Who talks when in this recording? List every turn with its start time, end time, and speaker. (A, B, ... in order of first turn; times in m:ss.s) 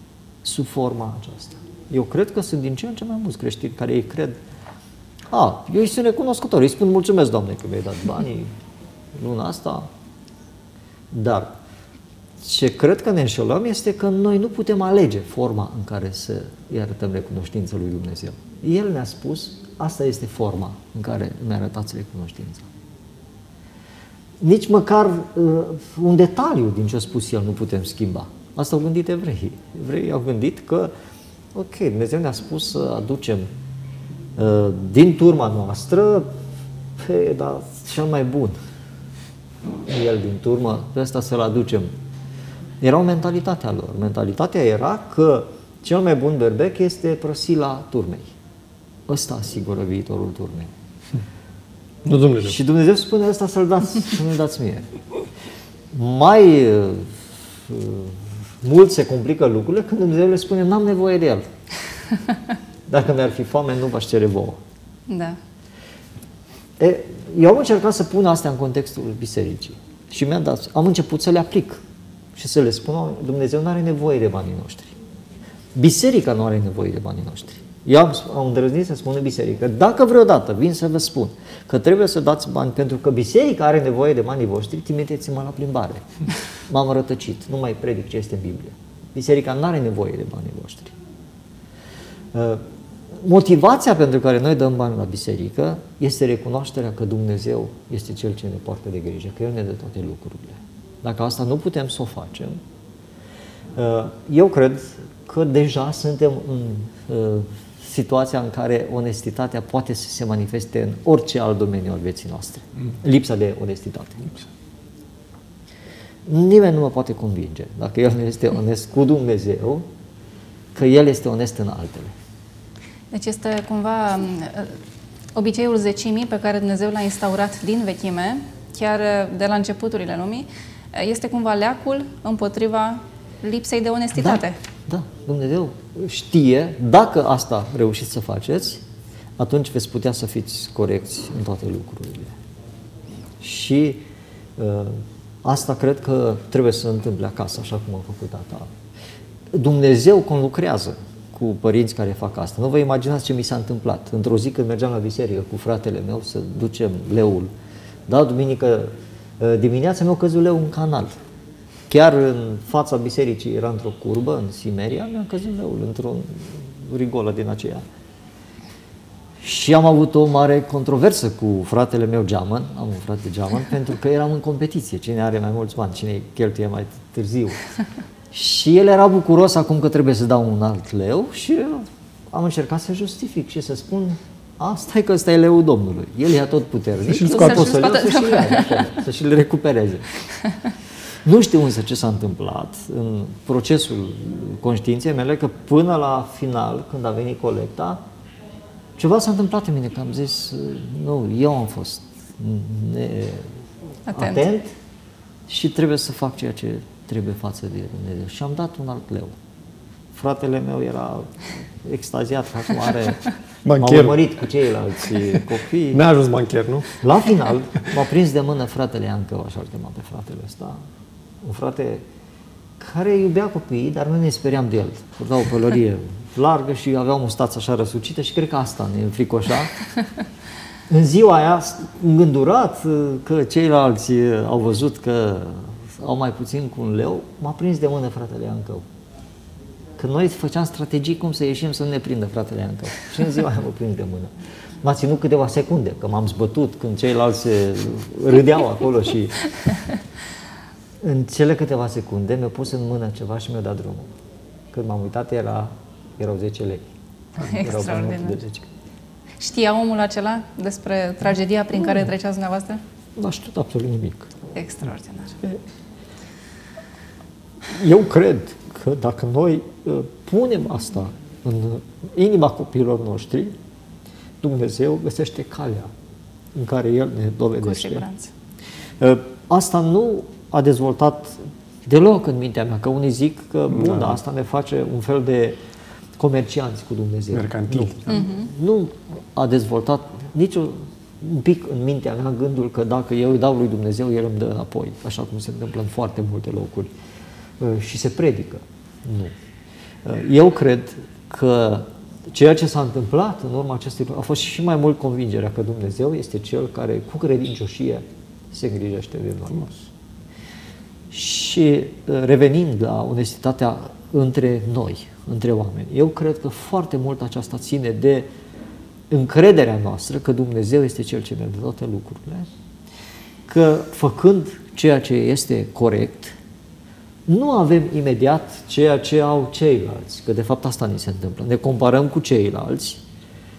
0:00.4-0:04.4 A
0:05.3-0:08.5 A
0:09.2-0:09.9 A
0:11.1-0:11.6 A
0:12.4-0:22.7 A
0:24.4-0:30.9 A
0:31.6-0:33.5 A
0:34.4-0:36.4 A
0:37.0-0:38.6 A
0:39.9-0:41.9 A
0:42.8-0:48.3 A
0:49.1-0:50.7 A
0:52.0-0:52.6 B
0:52.4-0:54.9 A
0:55.9-1:01.5 A
1:02.9-1:04.6 A
1:05.1-1:05.4 C
1:06.8-1:11.8 A
1:12.4-1:15.0 A
1:15.8-1:26.1 A
1:26.7-1:30.9 A
1:32.3-1:32.6 A
1:33.1-1:42.6 A
1:43.8-1:54.4 A
1:56.3-1:59.9 A
2:00.8-2:02.1 A
2:03.1-2:04.8 C
2:05.4-2:14.6 C
2:14.2-2:18.8 A
2:19.4-2:22.4 A
2:23.4-2:24.0 A
2:24.6-2:28.7 A
2:29.5-2:37.5 A
2:38.1-2:41.2 A
2:41.9-2:47.8 A
2:49.4-2:57.6 A
2:58.3-3:10.1 A
3:07.1-3:07.8 B
3:07.3-3:09.0 C
3:11.2-3:18.0 A
3:19.0-3:23.5 A
3:24.1-3:24.4 C
3:24.1-3:24.7 A
3:25.5-3:29.3 A
3:30.1-3:33.3 A
3:33.6-3:34.2 B
3:33.8-3:36.0 A
3:35.9-3:36.9 B
3:37.0-3:40.8 A
3:41.4-3:42.0 A
3:42.8-3:49.8 A
3:50.9-3:58.8 A
4:00.0-4:09.5 A
4:11.0-4:14.1 A
4:14.7-4:16.9 A
4:17.4-4:18.4 C
4:17.4-4:18.7 A
4:19.4-4:22.8 C
4:23.2-4:24.3 A
4:24.5-4:25.4 C
4:27.7-4:33.6 A
4:34.4-4:35.9 A
4:36.6-4:38.1 A
4:37.6-4:38.3 C
4:39.0-4:45.6 A
4:43.7-4:44.2 B
4:46.2-4:56.9 A
4:47.3-4:48.2 B
4:48.1-4:48.4 C
4:57.6-4:59.3 A
5:00.0-5:09.8 A
5:11.1-5:18.3 A
5:19.1-5:22.5 A
5:23.5-5:26.4 A
5:27.3-5:33.0 A